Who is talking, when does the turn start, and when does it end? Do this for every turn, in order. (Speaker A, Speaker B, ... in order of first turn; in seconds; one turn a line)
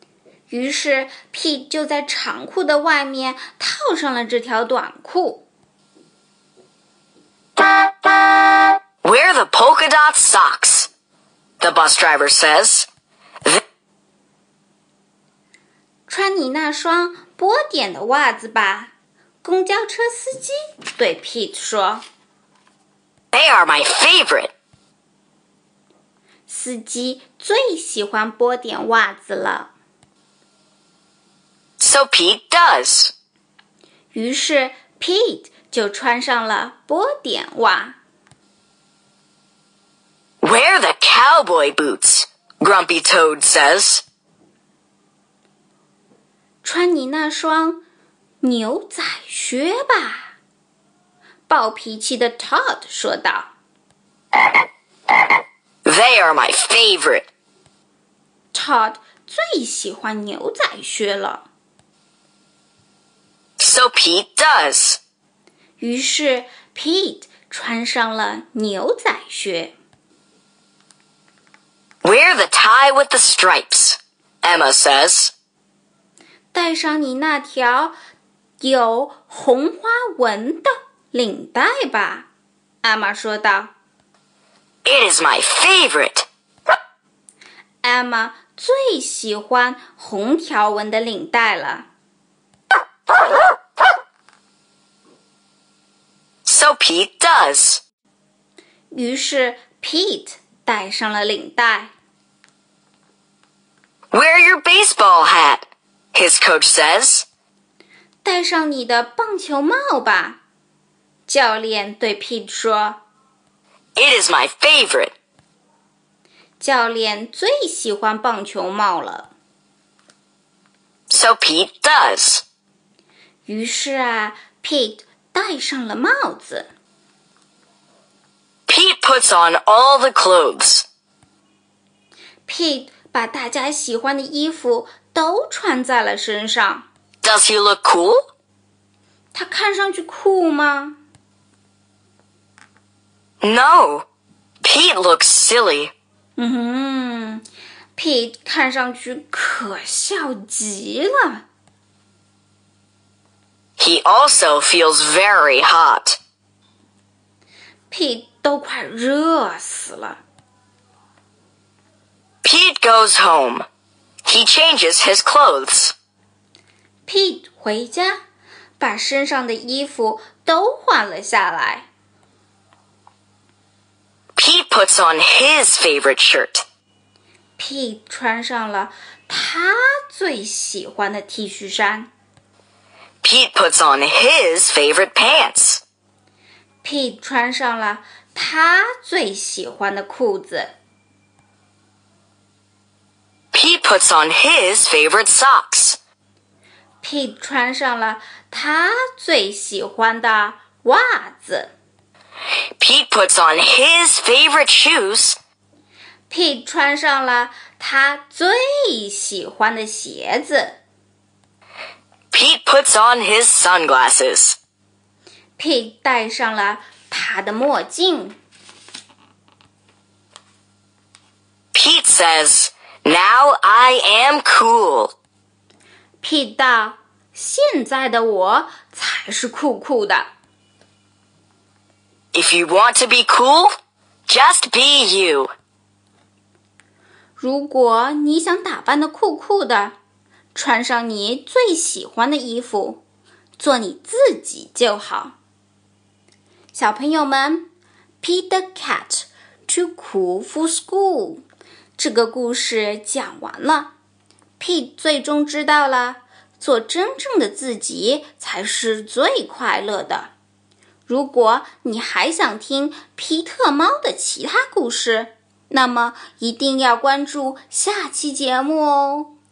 Speaker A: 0.5-5.5
Speaker B: 9.0-10.9
Speaker B: 11.6-12.9
Speaker A: 16.1-18.9
Speaker A: 19.4-22.0
Speaker B: 23.3-24.5
Speaker A: 26.5-29.7
Speaker B: 31.8-33.1
Speaker A: 34.1-38.0
Speaker B: 40.4-44.0
Speaker A: 46.6-47.8
Speaker A: 48.4-50.4
Speaker A: 51.5-53.5
Speaker B: 55.9-57.3
Speaker A: 58.5-61.5
Speaker B: 63.6-65.0
Speaker A: 65.8-69.7
Speaker B: 72.0-75.3
Speaker A: 76.5-78.0
Speaker A: 78.6-82.3
Speaker A: 82.8-83.7
Speaker B: 84.8-86.3
Speaker A: 87.8-91.9
Speaker B: 96.5-97.8
Speaker A: 98.9-101.9
Speaker B: 104.1-107.3
Speaker A: 108.2-110.4
Speaker A: 111.3-113.0
Speaker B: 114.0-115.1
Speaker A: 116.6-119.3
Speaker B: 121.1-122.4
Speaker A: 123.5-126.7
Speaker B: 128.7-130.8
Speaker A: 132.5-136.9
Speaker B: 137.2-138.2
Speaker A: 139.3-141.0
Speaker B: 143.4-144.1
Speaker B: 144.6-145.9
Speaker A: 146.4-147.4
Speaker A: 148.0-151.4
Speaker B: 153.8-156.2
Speaker A: 157.9-160.2
Speaker B: 162.4-163.7
Speaker B: 164.2-165.9
Speaker A: 167.1-168.2
Speaker A: 168.8-171.9
Speaker B: 174.4-176.6
Speaker A: 177.6-182.1
Speaker B: 183.2-185.8
Speaker A: 186.8-190.8
Speaker B: 193.5-196.0
Speaker A: 197.0-201.7
Speaker B: 202.8-205.4
Speaker A: 206.3-210.8
Speaker B: 212.3-214.6
Speaker A: 215.6-218.4
Speaker B: 221.7-225.1
Speaker A: 226.2-230.3
Speaker B: 232.3-233.7
Speaker B: 234.3-235.5
Speaker A: 237.4-239.9
Speaker A: 240.5-243.0
Speaker A: 243.6-245.4
Speaker A: 246.7-247.7
Speaker A: 248.2-251.4
Speaker A: 252.0-253.9
Speaker A: 254.6-260.3
Speaker A: 261.1-269.3